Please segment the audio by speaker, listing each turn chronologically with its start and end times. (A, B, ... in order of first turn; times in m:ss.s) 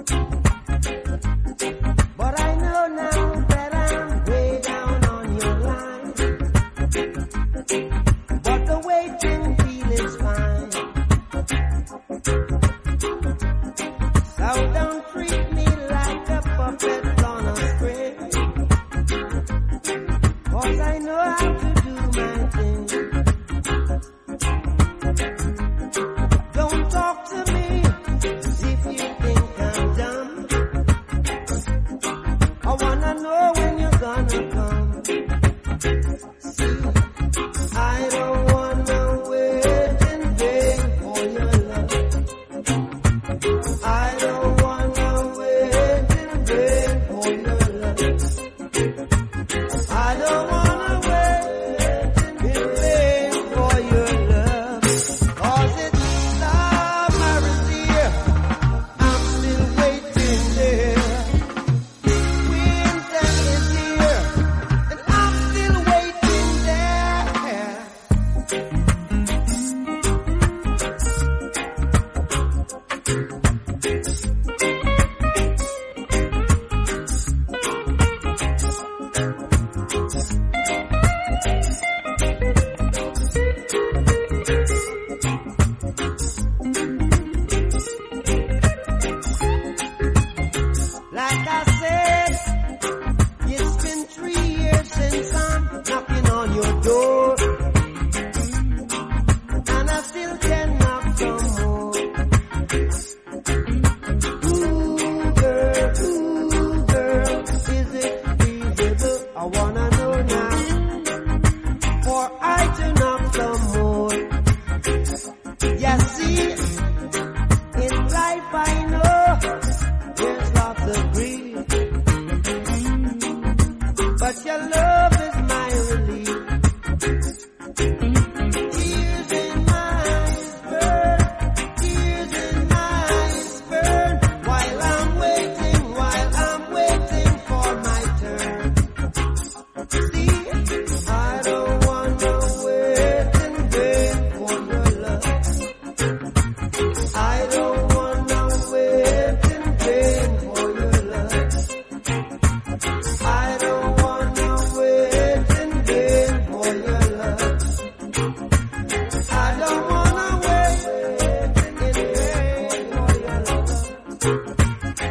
0:02.2-0:06.3 A
0:08.4-0:10.9 A
0:14.3-0:18.5 A
0:20.5-0:23.2 A
0:26.5-0:30.6 A
0:32.6-0:35.1 A
0:36.4-0:37.0 A
0:37.7-0:42.1 A
0:43.8-0:48.3 A
0:49.9-0:58.4 A
0:59.0-1:01.4 A
1:02.2-1:08.0 A
1:31.1-1:32.6 A
1:33.4-1:37.7 A
1:39.6-1:42.2 A
1:44.4-1:50.8 A
1:52.0-1:54.4 A
1:55.7-1:56.8 A
1:57.7-1:59.6 A
2:00.1-2:01.8 A
2:04.2-2:06.5 A
2:08.5-2:18.8 A
2:20.0-2:25.5 A
2:27.1-2:31.7 A
2:33.2-2:37.7 A
2:39.3-2:44.0 A